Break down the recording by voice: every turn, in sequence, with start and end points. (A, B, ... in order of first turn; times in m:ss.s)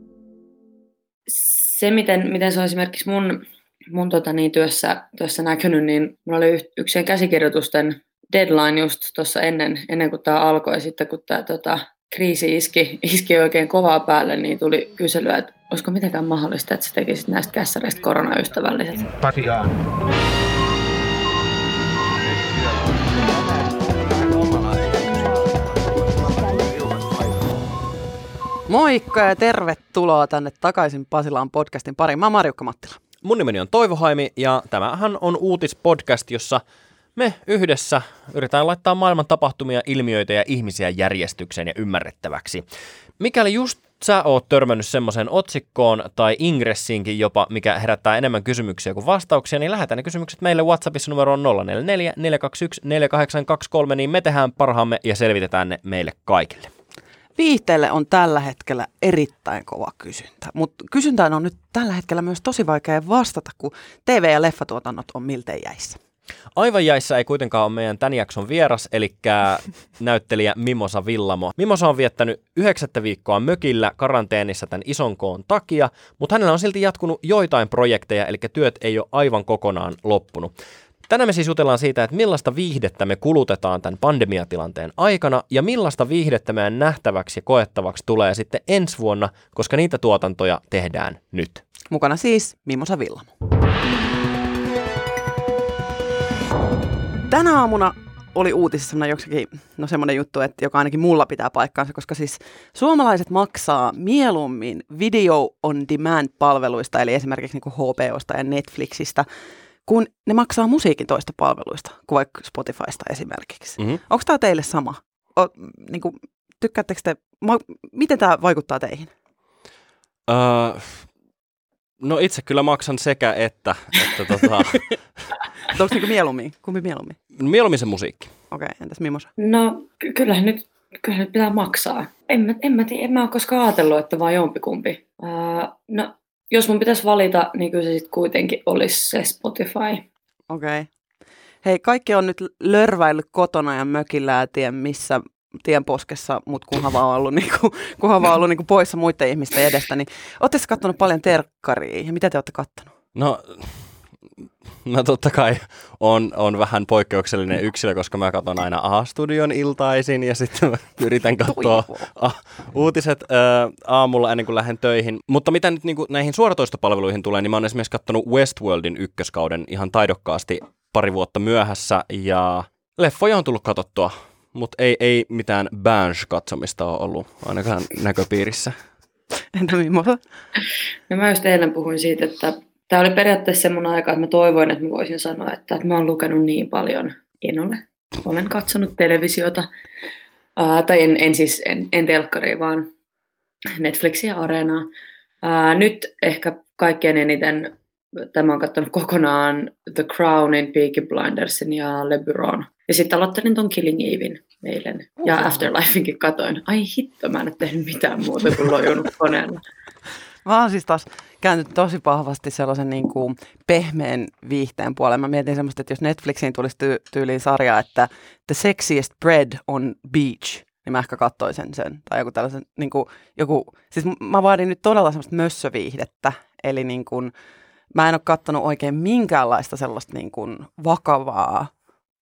0:01.3-0:19.2 A
0:28.7-0:33.0 B
0:33.2-0:36.6 C
0:37.2-0:42.6 C
0:43.2-0:56.7 C
0:57.4-1:06.0 B
1:06.6-1:20.5 C
1:21.1-1:31.6 C
1:31.9-1:33.3 B
1:37.3-1:49.2 B
1:49.9-1:59.1 B
2:00.3-2:01.1 C
2:02.0-2:04.9 C
2:05.7-2:07.2 B
2:07.4-2:08.3 C
2:08.5-2:09.3 B
2:09.4-2:20.0 A
2:20.5-2:20.9 B
2:21.6-2:32.9 B
2:33.1-2:33.8 C
2:34.8-2:58.7 C
2:41.5-2:42.1 B
2:59.5-3:00.2 B
3:01.1-3:09.7 A
3:10.6-3:12.9 A
3:13.8-3:14.9 A
3:15.4-3:29.6 A
3:25.2-3:25.7 B
3:30.4-3:47.3 B
3:47.9-3:51.7 B